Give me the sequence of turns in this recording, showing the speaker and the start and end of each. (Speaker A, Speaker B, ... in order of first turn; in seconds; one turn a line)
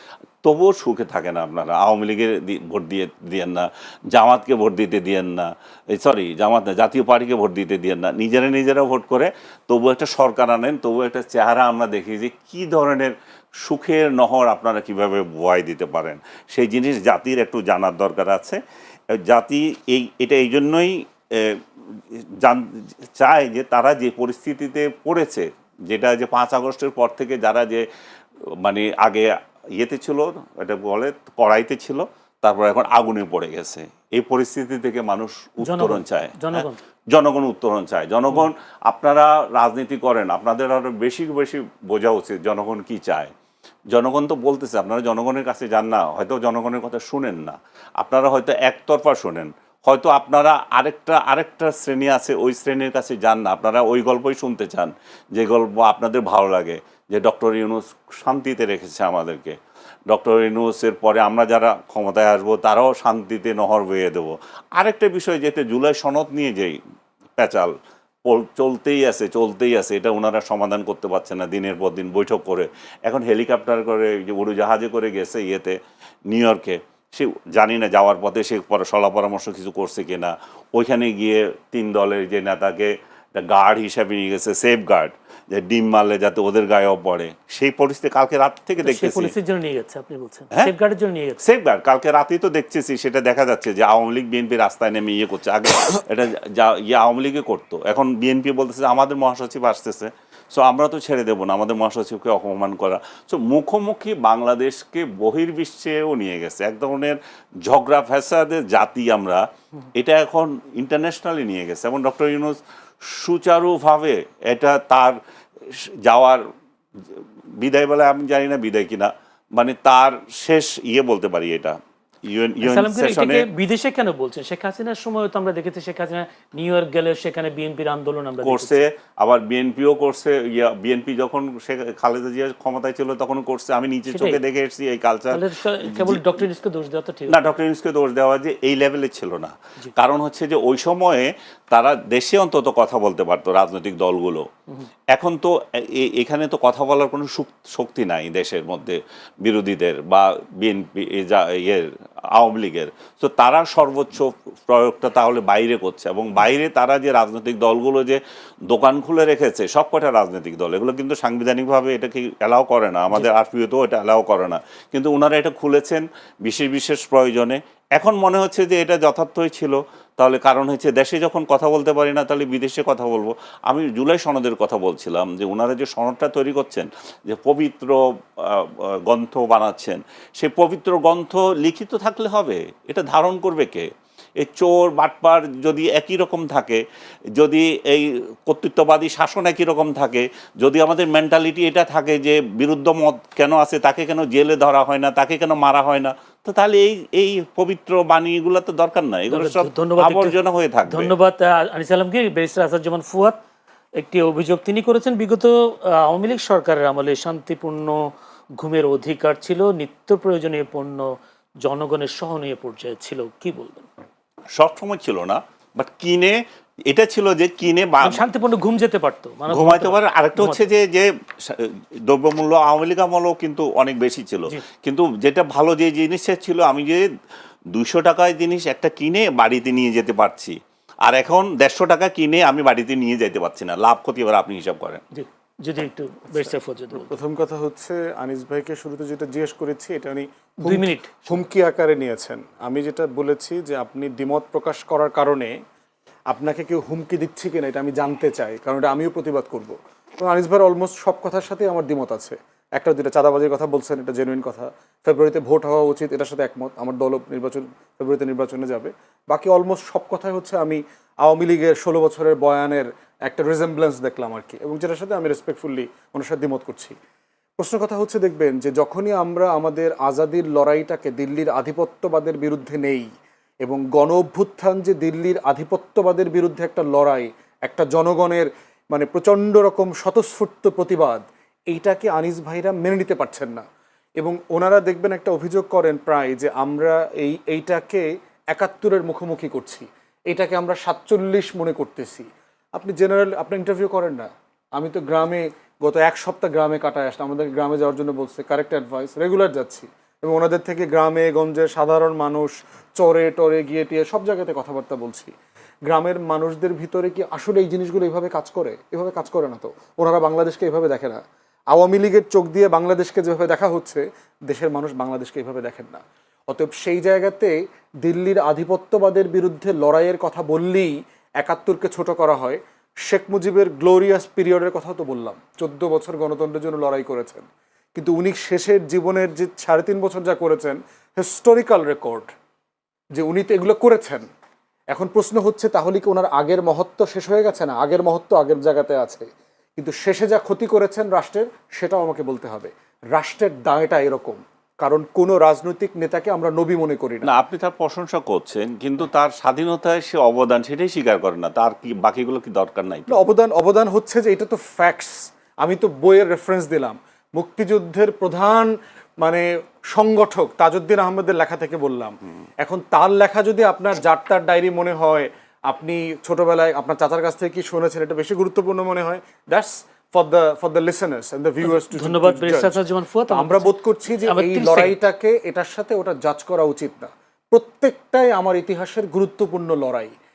Speaker A: 0.4-18.6
Speaker A: 19.2-21.6
Speaker A: 22.4-27.9
Speaker A: 28.6-43.3
Speaker B: 35.6-36.8
Speaker A: 43.9-59.5
Speaker A: 60.1-66.8
Speaker A: 67.4-67.7
Speaker A: 68.3-75.8
Speaker A: 76.3-89.3
Speaker B: 88.8-91.4
Speaker A: 91.4-109.4
Speaker A: 110.0-112.6
Speaker A: 113.1-116.4
Speaker A: 117.1-123.5
Speaker B: 122.6-128.8
Speaker A: 128.4-136.4
Speaker B: 134.1-134.4
Speaker B: 135.3-137.4
Speaker A: 137.3-144.4
Speaker A: 145.1-186.8
Speaker A: 187.4-201.1
Speaker B: 199.3-200.3
Speaker B: 200.9-203.4
Speaker B: 204.0-208.0
Speaker B: 208.6-213.9
Speaker A: 214.6-216.4
Speaker A: 216.9-218.2
Speaker B: 218.0-220.7
Speaker A: 219.5-227.0
Speaker A: 227.7-235.0
Speaker B: 235.1-237.2
Speaker C: 236.3-245.5
Speaker B: 240.6-241.4
Speaker C: 246.3-266.9
Speaker C: 267.6-273.1
Speaker C: 273.6-283.6
Speaker C: 284.2-305.3
Speaker C: 305.9-332.3
Speaker C: 333.1-334.2
Speaker C: 334.9-347.3
Speaker A: 347.2-353.2
Speaker C: 353.1-380.1
Speaker B: 371.6-374.9